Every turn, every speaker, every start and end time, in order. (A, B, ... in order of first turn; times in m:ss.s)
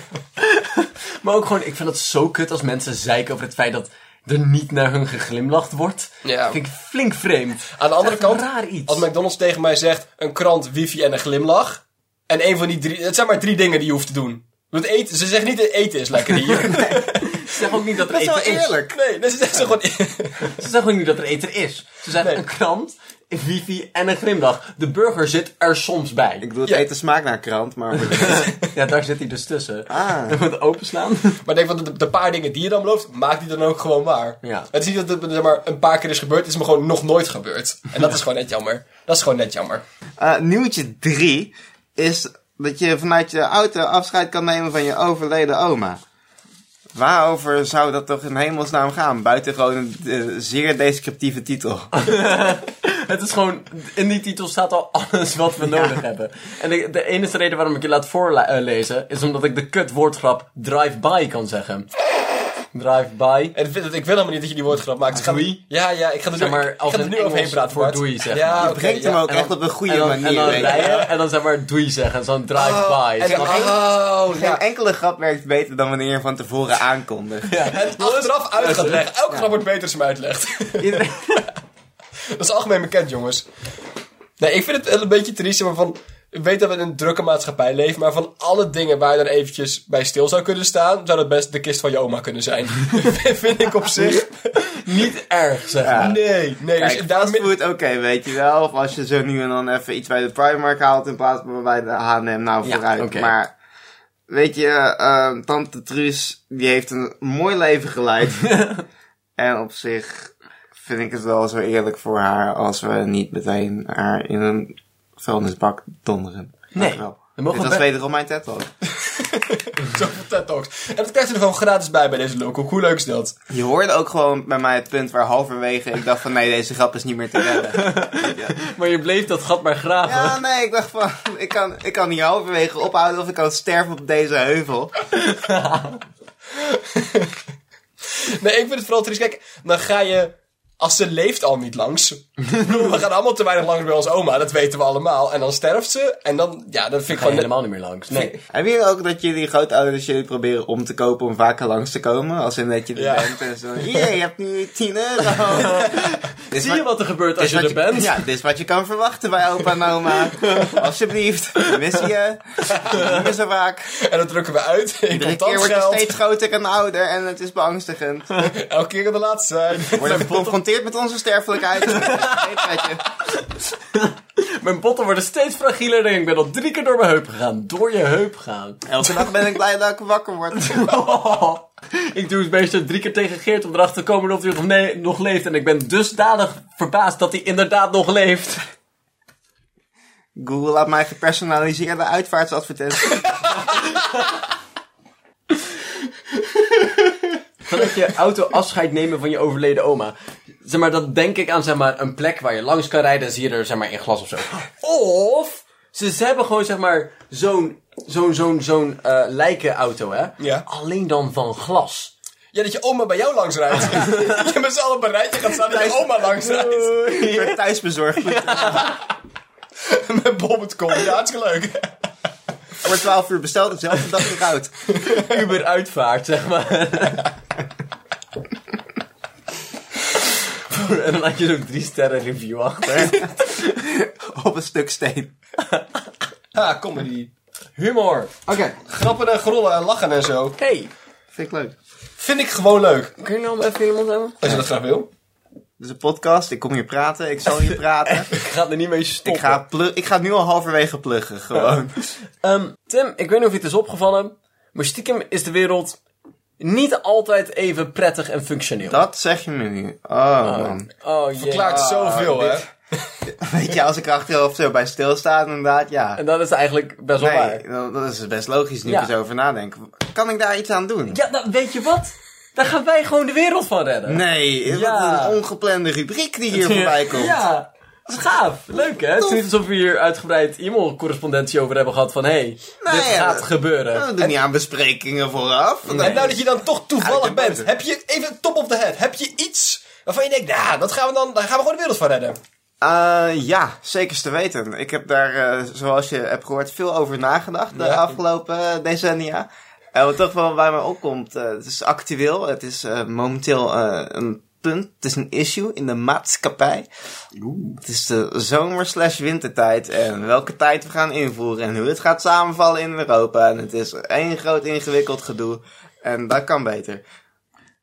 0:00.4-0:09.0 A
0:06.2-0:06.6 B
0:07.8-0:17.8 B
0:16.5-0:18.8 A
0:18.0-0:19.0 C
0:18.9-0:20.5 B
0:20.4-0:26.5 A
0:26.4-0:28.5 C
0:28.0-0:31.4 A
0:28.3-0:28.6 B
0:29.9-0:30.4 C
0:31.4-0:39.8 B
0:34.4-0:34.7 A
0:40.2-0:46.0 C
0:47.0-0:51.9 C
0:51.9-1:01.9 A
0:55.6-0:56.0 C
1:02.7-1:03.5 A
1:03.6-1:09.5 B
1:05.1-1:05.6 A
1:06.4-1:08.8 A
1:08.6-1:11.0 C
1:09.3-1:13.7 A
1:10.4-1:11.1 B
1:12.6-1:14.6 B
1:13.3-1:17.6 C
1:17.5-1:19.0 A
1:17.6-1:21.1 B
1:20.8-1:21.5 A
1:22.3-1:23.4 B
1:24.4-1:35.0 B
1:34.6-1:36.1 A
1:35.8-1:43.5 C
1:36.0-1:37.5 B
1:42.6-1:43.3 A
1:44.3-1:48.5 C
1:48.4-1:48.8 A
1:49.4-1:58.7 C
1:56.7-1:57.9 A
1:59.0-2:03.4 B
2:03.5-2:08.6 C
2:07.7-2:10.4 A
2:10.0-2:14.9 C
2:15.1-2:16.0 A
2:16.6-2:17.4 B
2:18.1-2:27.5 B
2:27.1-2:28.4 A
2:28.4-2:35.9 C
2:33.0-2:33.4 B
2:35.5-2:38.2 A
2:36.5-2:36.9 C
2:37.4-2:43.9 C
2:40.4-2:40.8 A
2:41.6-2:42.0 A
2:42.7-2:43.0 B
2:42.9-2:43.2 A
2:44.0-2:46.1 B
2:45.1-2:48.5 C
2:48.4-2:50.5 B
2:49.9-2:53.0 C
2:51.9-2:59.2 A
2:58.9-3:01.1 C
3:00.6-3:08.6 A
3:10.4-3:13.6 C
3:17.6-3:32.1 A
3:30.4-3:30.6 B
3:32.5-3:37.0 B
3:33.9-3:34.3 A
3:35.6-3:36.2 C
3:36.2-3:37.6 A
3:37.1-3:38.9 C
3:38.2-3:39.0 A
3:39.8-3:41.9 B
3:42.8-3:44.7 C
3:44.9-3:45.3 B
3:45.0-3:47.3 A
3:50.7-3:53.8 A
3:53.0-3:55.3 C
3:55.6-3:55.9 A
3:56.5-3:57.3 B
3:57.8-3:58.4 A
3:58.5-3:58.8 C
3:58.8-4:00.6 B
4:00.6-4:00.9 A
4:01.3-4:01.8 C
4:02.2-4:03.1 B
4:03.2-4:04.4 A
4:04.4-4:05.1 B
4:05.8-4:08.3 C
4:08.1-4:09.6 A
4:09.2-4:12.0 C
4:12.4-4:16.0 A
4:16.6-4:19.0 A
4:18.9-4:20.9 C
4:20.4-4:21.9 A
4:21.4-4:22.6 B
4:21.6-4:22.6 C
4:23.2-4:26.2 C
4:26.2-4:27.6 A
4:27.2-4:31.2 C
4:28.9-4:29.1 A
4:31.1-4:35.4 A
4:34.1-4:37.4 C
4:36.5-4:44.1 A
4:39.2-4:39.4 C
4:42.8-4:46.4 C
4:45.9-4:46.3 A
4:45.9-4:52.4 B
4:47.0-4:47.7 C
4:52.8-5:06.9 C
4:57.7-4:58.2 B
5:07.4-5:07.8 A
5:07.8-5:17.0 C